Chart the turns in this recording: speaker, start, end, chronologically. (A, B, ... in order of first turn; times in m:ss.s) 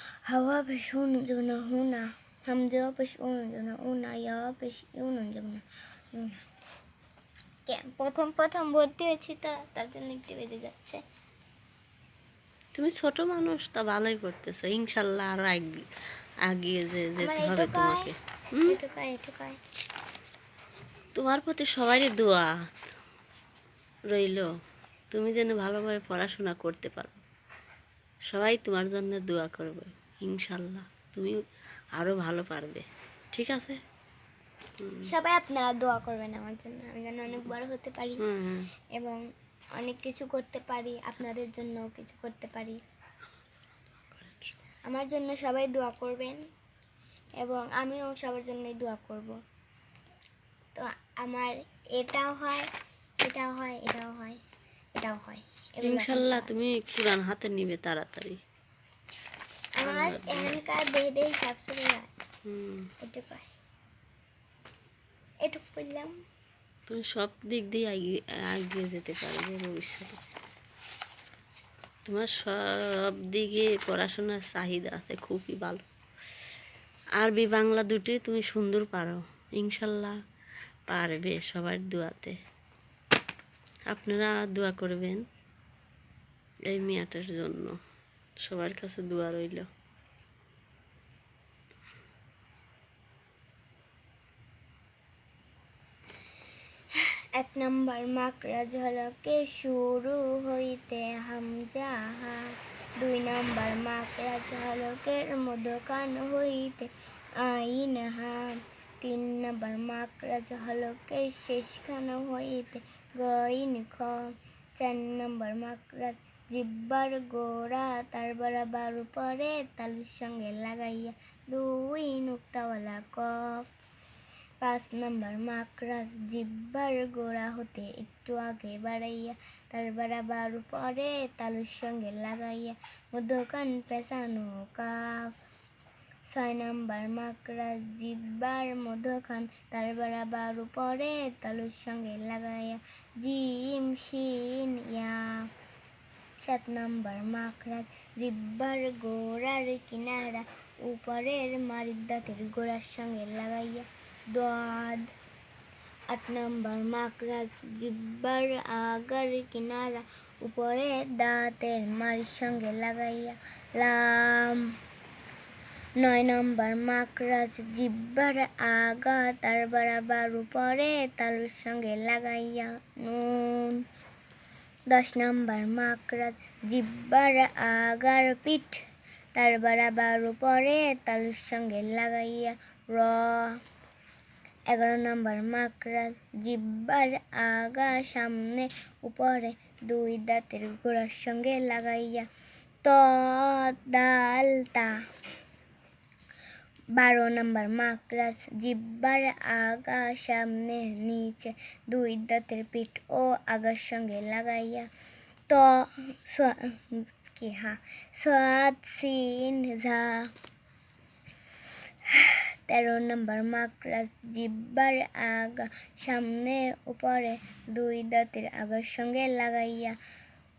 0:00.2-0:06.4 A
0:07.7-0:11.0 A
0:12.7-0:15.9 B
0:16.4-0:18.8 B
0:17.2-0:18.1 A
0:18.6-0:19.6 A
0:21.1-0:22.6 B
0:24.1-0:24.5 B
0:25.1-0:27.2 B
0:28.3-0:31.4 B
0:31.9-0:33.8 B
0:34.8-0:35.1 B
0:35.0-0:38.2 A
0:38.2-0:38.7 B
0:38.9-0:39.2 A
0:39.8-0:42.8 A
0:44.1-0:44.5 B
0:44.8-0:46.4 A
0:47.4-0:49.4 A
0:50.7-0:52.7 A
0:53.2-0:54.4 A
0:54.9-0:56.5 A
0:55.8-0:58.4 B
0:59.8-1:02.1 A
0:59.8-1:00.6 B
1:02.4-1:02.9 B
1:03.0-1:03.5 A
1:05.4-1:06.2 A
1:06.9-1:10.2 B
1:12.1-1:15.8 B
1:17.2-1:20.2 B
1:20.9-1:22.3 B
1:23.9-1:25.2 B
1:26.7-1:27.8 B
1:28.4-1:29.6 B
1:37.3-1:42.4 A
1:43.0-1:48.5 A
1:49.0-2:03.6 A
2:04.6-2:15.3 A
2:16.3-2:25.5 A
2:26.4-2:35.1 A
2:36.1-2:44.7 A
2:46.0-2:53.8 A
2:54.9-2:58.8 A
2:59.4-3:03.6 A
3:04.7-3:12.2 A
3:12.8-3:15.0 A
3:16.9-3:24.9 A
3:25.5-3:30.3 A
3:32.1-3:40.0 A